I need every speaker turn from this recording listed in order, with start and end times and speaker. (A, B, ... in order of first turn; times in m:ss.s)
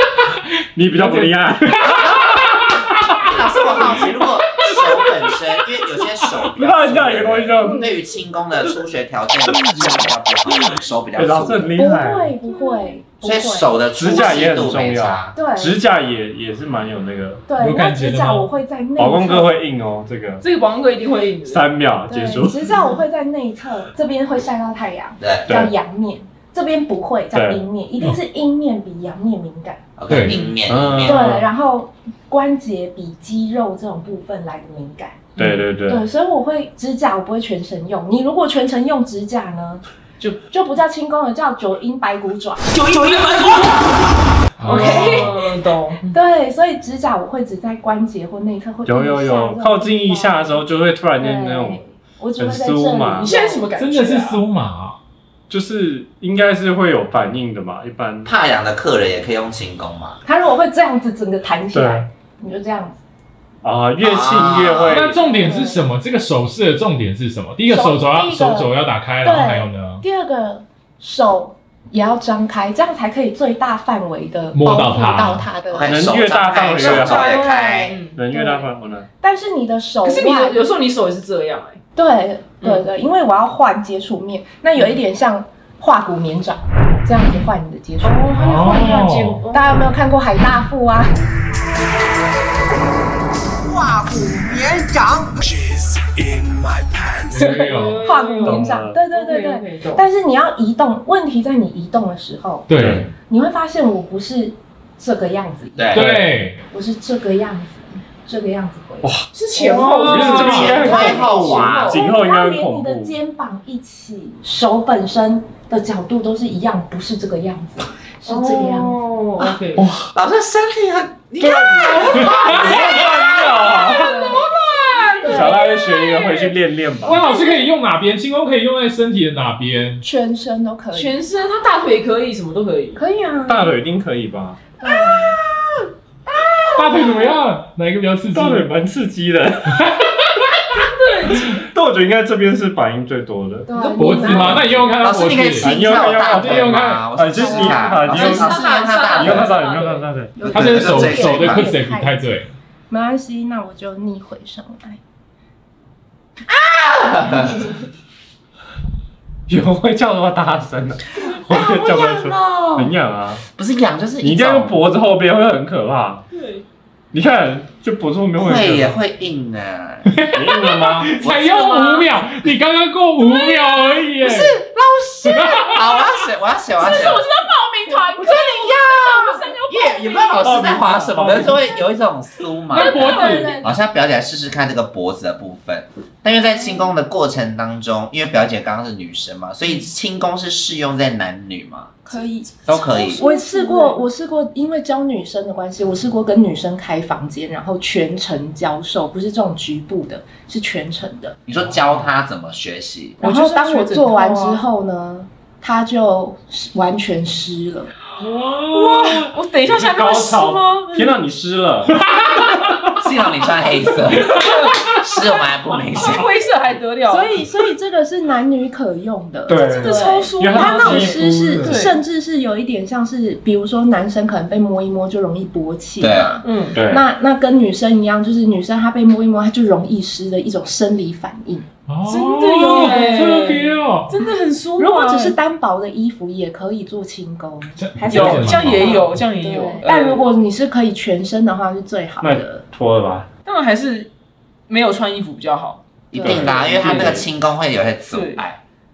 0:00.8-0:01.8 A
0:01.0-0:05.3 B
0:03.2-0:11.7 C
0:06.5-0:07.9 A
0:07.6-0:07.9 D
0:11.2-0:12.5 A
0:11.8-0:14.3 D
0:13.2-0:15.3 C
0:13.9-0:17.5 A
0:15.3-0:15.8 D
0:17.5-0:19.6 D
0:17.6-0:18.5 B
0:19.0-0:20.4 A
0:20.4-0:21.7 E
0:21.4-0:22.8 A
0:22.1-0:30.3 D
0:25.2-0:25.5 C
0:25.4-0:25.7 A
0:27.3-0:27.7 A
0:30.0-0:31.2 C
0:30.1-0:30.4 B
0:30.3-0:31.5 A
0:31.0-0:39.8 D
0:35.4-0:36.1 A
0:40.4-0:42.8 D
0:42.7-0:43.9 E
0:44.6-0:45.3 B
0:44.6-0:46.1 E
0:44.6-0:45.3 D
0:46.1-0:50.6 D
0:48.8-0:51.8 A
0:51.2-0:53.7 D
0:52.4-0:53.3 A
0:53.2-0:54.4 E
0:53.8-0:55.0 B
0:55.5-0:58.3 A
0:58.2-1:00.2 C
1:00.2-1:03.0 D
1:01.7-1:02.1 A
1:03.6-1:05.2 A
1:04.0-1:05.1 C
1:04.8-1:10.0 B
1:05.2-1:05.8 D
1:07.7-1:08.7 D
1:09.2-1:15.9 D
1:14.5-1:15.5 B
1:15.7-1:18.0 C
1:15.8-1:17.5 A
1:16.8-1:18.7 D
1:17.8-1:18.2 E
1:18.1-1:19.1 A
1:19.2-1:20.6 D
1:20.0-1:21.8 E
1:22.0-1:29.0 D
1:22.6-1:22.8 E
1:28.0-1:29.7 E
1:28.3-1:29.4 B
1:29.5-1:31.2 D
1:34.0-1:34.6 E
1:37.3-1:38.0 B
1:37.4-1:40.0 E
1:38.0-1:46.1 D
1:38.4-1:39.0 A
1:42.7-1:43.1 B
1:42.7-1:43.1 A
1:45.8-1:46.1 C
1:45.9-1:46.6 B
1:46.0-1:46.3 A
1:46.6-1:49.1 D
1:49.0-1:53.2 A
1:49.3-1:52.0 E
1:50.0-1:50.8 B
1:50.3-1:59.0 D
1:50.4-1:51.9 C
1:58.2-1:59.9 E
1:59.8-2:00.1 A
2:00.1-2:03.0 C
2:01.3-2:06.4 E
2:01.4-2:04.2 A
2:02.2-2:03.3 B
2:03.9-2:04.5 D
2:05.2-2:05.8 D
2:05.2-2:07.2 A
2:07.0-2:10.0 B
2:10.0-2:11.2 D
2:10.9-2:13.0 E
2:13.0-2:13.8 D
2:13.5-2:14.6 A
2:14.8-2:15.4 D
2:16.3-2:17.3 D
2:16.7-2:18.7 B
2:18.3-2:19.8 A
2:19.7-2:20.2 B
2:20.7-2:21.6 E
2:21.6-2:23.7 A
2:23.7-2:24.7 D
2:23.7-2:24.9 E
2:24.0-2:27.1 B
2:24.4-2:24.9 A
2:25.0-2:29.6 C
2:25.6-2:30.4 A
2:27.2-2:28.6 D
2:28.1-2:30.0 E
2:30.4-2:32.4 D
2:30.4-2:31.7 C
2:30.5-2:32.5 B
2:32.9-2:35.0 D
2:36.5-2:37.6 C
2:39.5-2:43.4 A
2:41.5-2:42.9 C
2:43.6-2:44.8 C
2:44.2-2:46.2 A
2:46.3-2:46.6 E
2:47.1-2:49.0 A
2:48.4-2:50.3 C
2:50.1-2:54.6 B
2:50.3-2:51.2 A
2:51.2-2:52.2 C
2:54.2-2:57.2 C
2:55.2-2:56.1 B
2:56.8-3:00.6 E
2:58.2-3:11.9 C
3:00.4-3:01.6 A
3:02.7-3:03.6 B
3:02.8-3:03.6 E
3:02.9-3:03.7 D
3:12.0-3:12.5 D
3:12.1-3:14.0 E
3:12.7-3:13.2 C
3:13.2-3:21.4 D
3:21.5-3:23.2 C
3:21.5-3:22.0 B
3:23.2-3:27.9 D
3:23.2-3:24.6 E
3:28.2-3:29.3 B
3:28.7-3:31.2 E
3:29.7-3:32.0 A
3:33.0-3:36.3 C
3:34.1-3:34.9 E
3:34.2-3:34.7 B
3:35.6-3:37.5 E
3:37.1-3:51.7 D
3:39.5-3:41.9 A
3:39.6-3:42.0 E
3:46.0-3:46.4 C
3:46.4-3:46.8 E
3:46.7-3:47.0 A
3:51.9-3:54.1 B
3:52.0-3:55.4 E
3:52.6-3:53.6 D
3:54.8-4:02.6 D
3:57.8-3:59.2 B
3:58.1-4:00.2 E
3:58.1-3:58.6 A
4:02.2-4:03.3 A
4:03.4-4:04.1 E
4:04.7-4:05.8 E
4:06.1-4:08.6 C
4:06.2-4:07.3 A
4:08.1-4:08.4 E